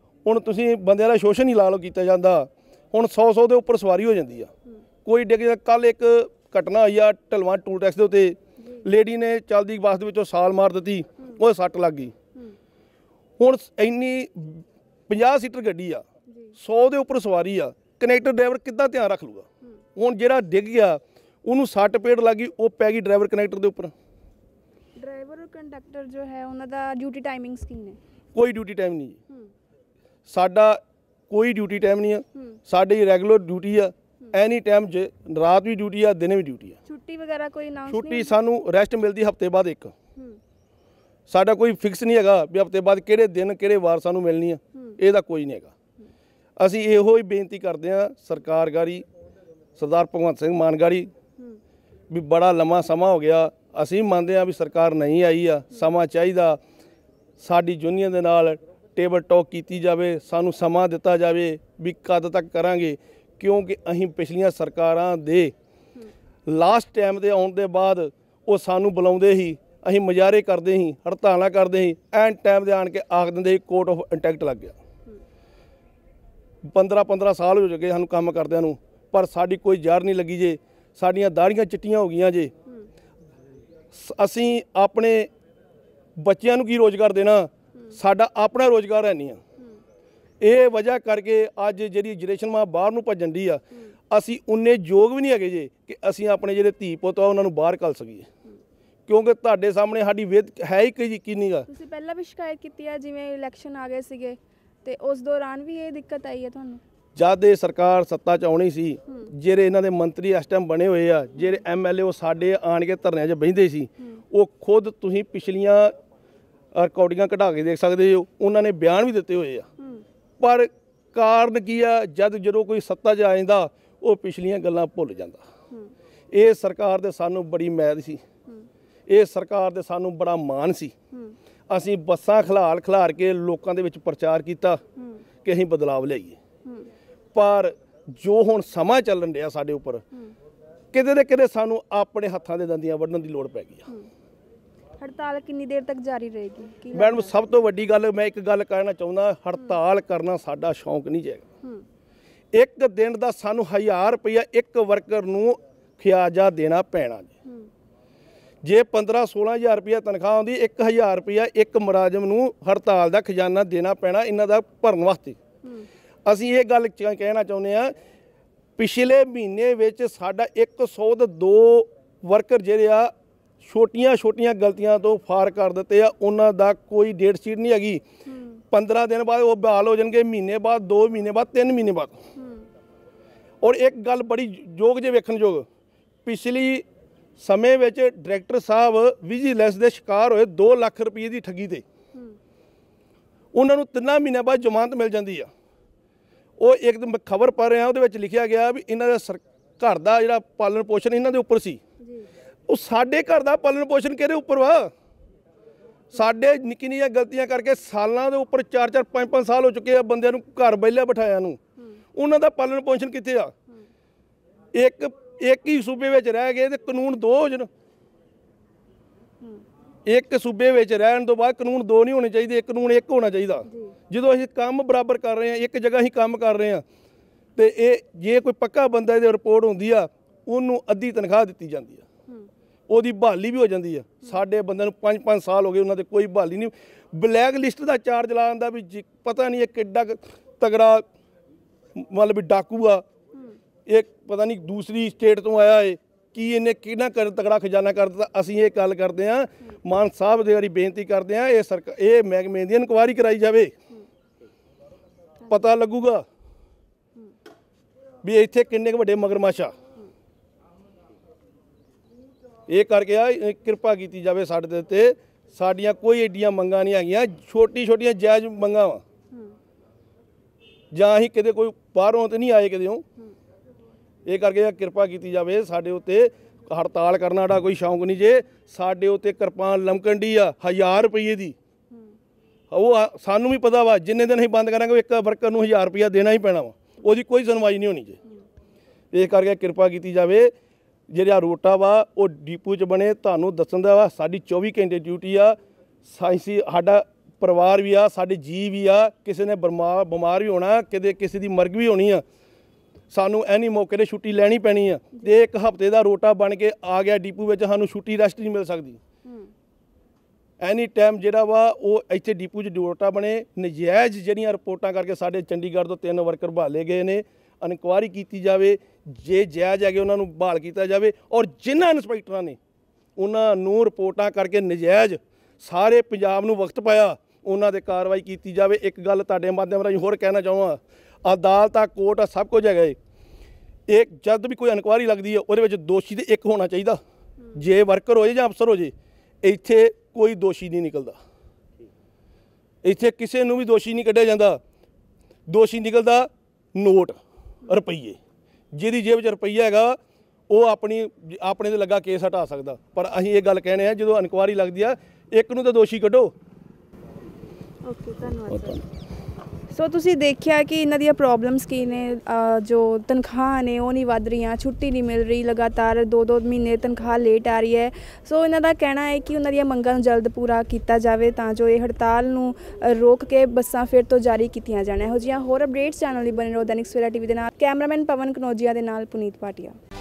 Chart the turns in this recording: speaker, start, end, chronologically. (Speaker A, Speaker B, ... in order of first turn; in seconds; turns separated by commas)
Speaker A: 0.2-4.5, Speaker A: 5.0-12.1, Speaker A: 13.4-16.0, Speaker A: 16.6-23.9, Speaker B: 25.0-28.0, Speaker A: 28.3-29.2, Speaker A: 30.3-36.8, Speaker B: 36.9-38.4, Speaker A: 37.9-39.9, Speaker A: 41.3-45.7, Speaker A: 46.6-49.0, Speaker A: 49.8-51.1, Speaker A: 52.1-56.6, Speaker A: 57.4-65.5, Speaker A: 66.5-74.8, Speaker A: 76.6-82.5, Speaker A: 83.9-85.3, Speaker A: 86.2-89.4, Speaker A: 90.4-98.3, Speaker A: 99.1-101.7, Speaker B: 101.7-106.8, Speaker A: 107.2-115.9, Speaker A: 116.7-119.7, Speaker A: 120.4-125.4, Speaker A: 126.3-128.2, Speaker A: 129.1-130.9, Speaker A: 131.7-134.8, Speaker A: 135.4-136.4, Speaker A: 137.3-140.0, Speaker A: 140.9-143.8, Speaker B: 145.0-147.3, Speaker A: 146.9-151.4, Speaker A: 152.5-157.3, Speaker A: 158.6-165.4, Speaker A: 166.2-167.9, Speaker A: 168.8-178.0, Speaker B: 178.3-178.6, Speaker A: 178.7-182.2, Speaker B: 182.3-182.7, Speaker A: 183.6-185.7, Speaker A: 186.2-186.8, Speaker A: 187.4-191.8, Speaker A: 193.5-195.5, Speaker A: 196.6-201.8, Speaker A: 202.7-204.9, Speaker A: 206.1-211.6, Speaker A: 212.1-213.5, Speaker A: 214.7-217.7, Speaker A: 220.1-226.8, Speaker B: 223.7-223.9, Speaker A: 227.6-232.0, Speaker A: 232.9-241.0, Speaker A: 241.9-243.0, Speaker A: 243.9-253.7, Speaker A: 255.5-256.2, Speaker A: 258.2-259.7, Speaker A: 262.7-269.0, Speaker A: 270.9-273.0, Speaker A: 274.2-281.5, Speaker A: 282.7-288.2, Speaker A: 289.1-290.5, Speaker A: 291.1-302.2, Speaker A: 303.1-309.0, Speaker A: 310.6-322.6, Speaker A: 323.2-333.0, Speaker A: 333.9-337.0, Speaker A: 337.5-341.2, Speaker A: 342.8-344.6, Speaker A: 345.5-348.2, Speaker A: 348.7-350.0, Speaker A: 350.5-356.3, Speaker B: 357.8-358.8, Speaker A: 358.5-358.8, Speaker B: 359.7-379.8